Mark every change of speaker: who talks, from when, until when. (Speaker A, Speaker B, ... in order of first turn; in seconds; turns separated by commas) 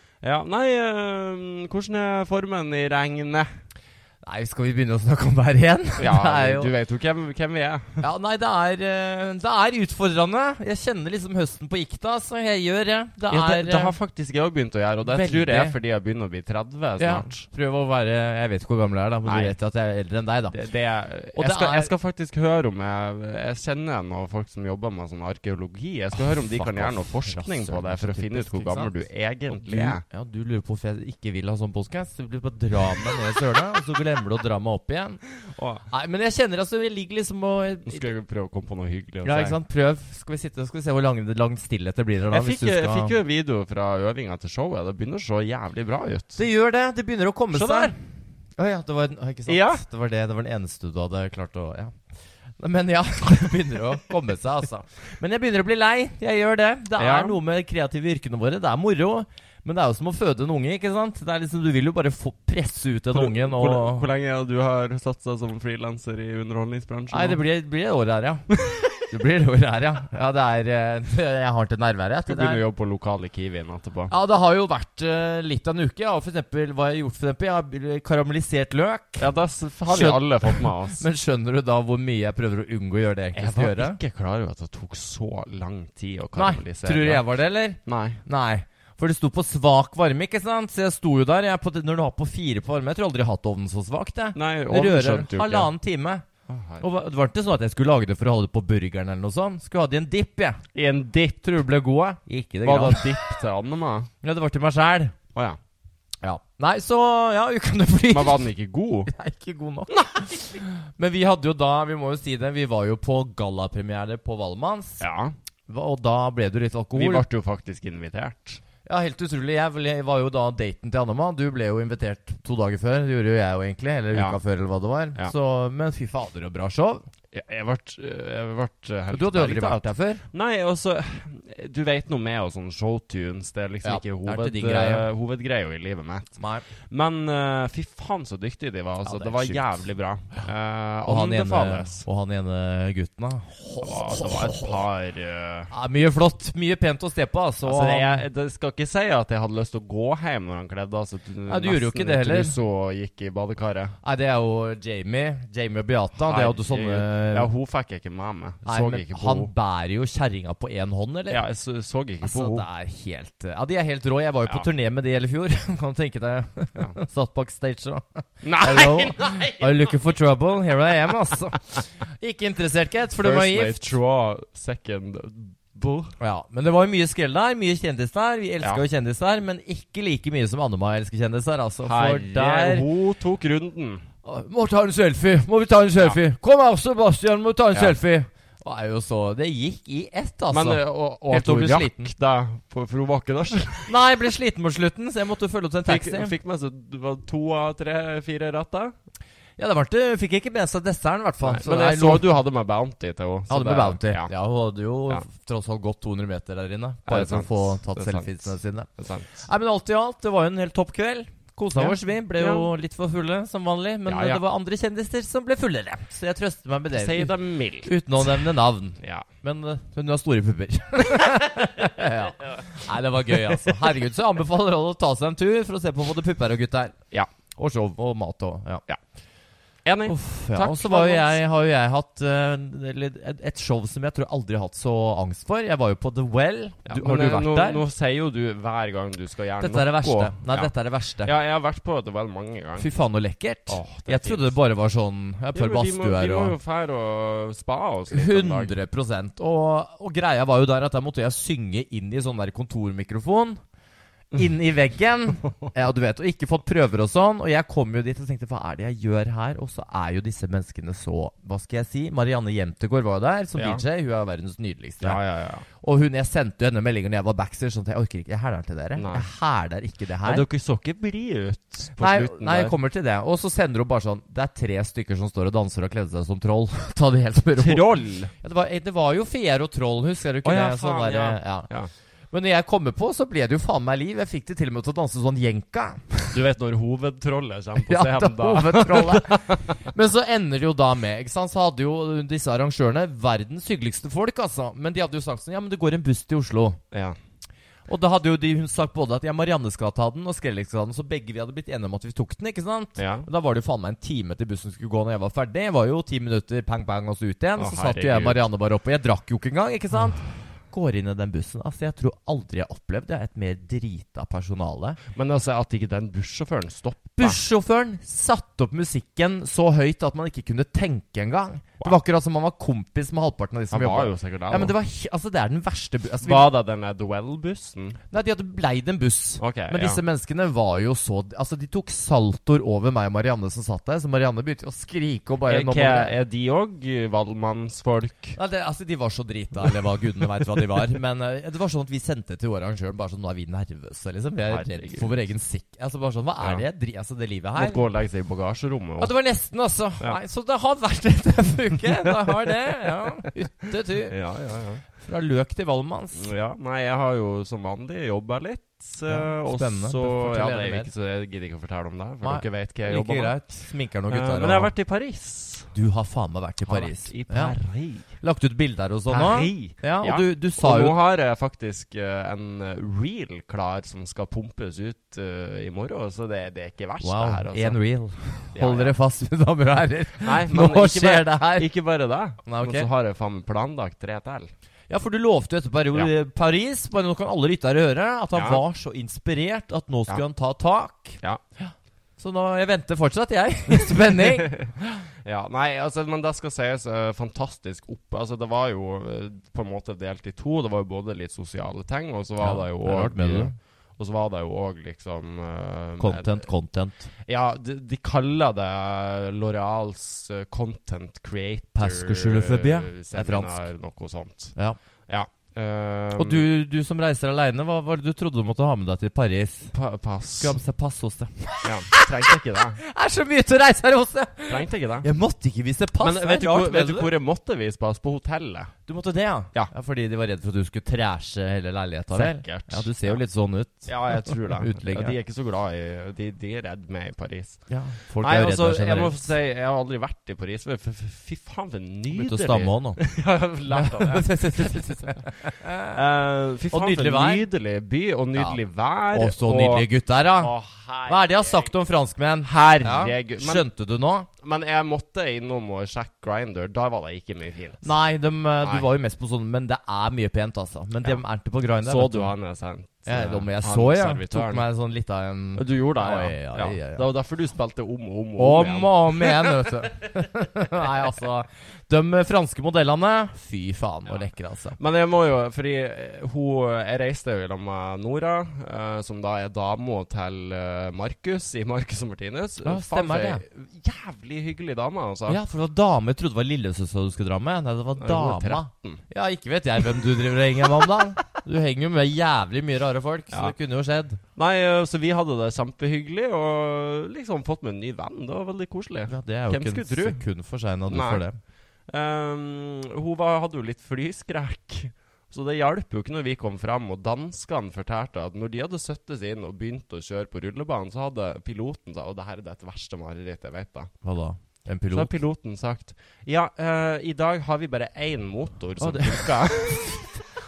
Speaker A: 0.2-3.5, Speaker B: 4.2-6.7, Speaker A: 6.0-8.0, Speaker B: 8.0-13.9, Speaker A: 13.3-17.4, Speaker B: 15.1-15.7, Speaker B: 17.0-20.6, Speaker A: 19.2-19.5, Speaker A: 20.5-30.0, Speaker B: 21.4-21.9, Speaker B: 26.2-28.9, Speaker B: 29.5-35.2, Speaker A: 35.5-35.8, Speaker B: 35.9-38.0, Speaker A: 37.9-39.6, Speaker B: 39.2-43.1, Speaker A: 42.3-46.4, Speaker B: 46.4-47.9, Speaker A: 47.5-47.9, Speaker B: 48.6-51.9, Speaker A: 49.5-49.8, Speaker B: 52.6-64.1, Speaker A: 57.0-57.4, Speaker A: 63.1-67.4, Speaker B: 67.1-68.5, Speaker B: 69.0-72.6, Speaker A: 72.3-74.1, Speaker B: 74.1-79.3, Speaker A: 79.2-81.0, Speaker B: 79.9-84.0, Speaker A: 83.3-87.2, Speaker B: 86.3-96.2, Speaker A: 87.8-88.2, Speaker A: 94.3-95.7, Speaker A: 96.5-96.8, Speaker B: 96.8-100.6, Speaker A: 100.7-101.5, Speaker B: 101.4-103.2, Speaker A: 102.6-104.1, Speaker B: 104.2-105.2, Speaker B: 106.2-108.5, Speaker A: 108.1-109.1, Speaker B: 109.1-115.0, Speaker A: 115.0-115.3, Speaker B: 115.7-117.2, Speaker A: 116.9-118.6, Speaker B: 118.8-127.0, Speaker A: 124.1-124.4, Speaker A: 127.3-142.0, Speaker B: 129.1-130.2, Speaker B: 133.8-135.1, Speaker B: 136.4-136.6, Speaker B: 139.0-139.8, Speaker B: 141.1-144.8, Speaker A: 143.8-145.7, Speaker B: 145.7-148.2, Speaker A: 147.6-154.0, Speaker B: 151.5-152.6, Speaker B: 154.0-157.5, Speaker A: 156.2-159.5, Speaker B: 158.6-161.4, Speaker A: 161.3-162.7, Speaker B: 162.2-173.9, Speaker A: 168.4-170.0, Speaker A: 173.2-176.1, Speaker B: 176.2-182.8, Speaker A: 181.8-184.1, Speaker B: 184.2-192.1, Speaker A: 187.7-188.0, Speaker A: 190.5-193.9, Speaker B: 193.9-196.3, Speaker A: 195.8-198.9, Speaker B: 199.6-202.3, Speaker A: 201.4-204.3, Speaker B: 203.5-208.9, Speaker A: 207.1-209.4, Speaker B: 209.4-227.0, Speaker A: 211.8-212.7, Speaker A: 214.1-214.4, Speaker A: 216.9-218.4, Speaker A: 219.0-219.3, Speaker A: 223.5-223.9, Speaker B: 227.6-228.8, Speaker A: 229.8-231.4, Speaker B: 230.1-237.8, Speaker A: 236.8-240.7, Speaker B: 239.6-241.3, Speaker A: 241.2-242.9, Speaker B: 242.8-246.6, Speaker A: 243.7-244.6, Speaker A: 245.5-248.7, Speaker B: 248.1-253.6, Speaker B: 254.3-265.2, Speaker A: 263.6-263.8, Speaker A: 265.0-265.6, Speaker B: 265.8-270.4, Speaker A: 268.9-269.3, Speaker A: 270.2-272.8, Speaker B: 272.0-281.7, Speaker A: 277.6-278.3, Speaker A: 280.4-281.9, Speaker B: 282.3-286.4, Speaker A: 286.3-289.7, Speaker B: 287.8-296.8, Speaker A: 296.9-297.2, Speaker B: 297.9-315.0, Speaker A: 303.0-303.3, Speaker A: 307.6-308.4, Speaker A: 315.1-317.4, Speaker B: 317.2-326.5, Speaker A: 323.7-324.7, Speaker A: 326.2-328.0, Speaker B: 328.1-336.1, Speaker A: 329.4-330.0, Speaker A: 335.5-338.4, Speaker B: 338.4-347.8, Speaker A: 339.6-341.0, Speaker A: 344.5-345.1, Speaker A: 347.6-349.1, Speaker B: 349.0-354.2, Speaker A: 351.9-353.3, Speaker A: 354.0-354.8, Speaker B: 355.0-356.3, Speaker A: 356.1-363.3, Speaker B: 359.1-360.9, Speaker B: 362.2-364.7, Speaker A: 364.1-365.7, Speaker B: 365.7-367.6, Speaker A: 366.6-368.1, Speaker B: 368.2-370.9, Speaker A: 369.1-377.8, Speaker B: 377.0-381.7, Speaker A: 378.5-378.9, Speaker A: 380.2-384.5, Speaker B: 382.4-382.9, Speaker B: 384.9-395.0, Speaker A: 388.3-388.6, Speaker A: 393.8-394.7, Speaker A: 395.2-406.5, Speaker B: 402.4-403.5, Speaker B: 406.0-407.1, Speaker A: 407.2-414.5, Speaker B: 411.7-413.6, Speaker A: 415.1-416.4, Speaker B: 416.2-419.7, Speaker A: 419.7-420.6, Speaker B: 420.4-427.1, Speaker A: 421.6-422.8, Speaker A: 424.5-425.1, Speaker A: 426.0-428.7, Speaker B: 428.9-435.1, Speaker A: 432.1-433.2, Speaker A: 433.9-437.6, Speaker B: 437.7-439.2, Speaker A: 438.2-449.9, Speaker B: 442.1-443.0, Speaker B: 443.7-446.0, Speaker B: 446.7-447.4, Speaker B: 449.1-450.5, Speaker A: 450.4-451.7, Speaker B: 451.1-454.3, Speaker A: 452.4-453.6, Speaker A: 454.4-457.9, Speaker B: 457.8-462.3, Speaker A: 461.8-464.6, Speaker B: 463.1-467.0, Speaker A: 465.6-469.7, Speaker B: 468.4-474.8, Speaker A: 474.8-485.4, Speaker B: 482.6-483.4, Speaker B: 485.3-494.2, Speaker A: 487.9-489.0, Speaker A: 490.6-490.9, Speaker A: 494.4-500.2, Speaker B: 499.1-501.4, Speaker A: 500.9-501.2, Speaker A: 501.9-513.9, Speaker B: 514.0-515.1, Speaker A: 514.9-520.2, Speaker B: 518.8-520.1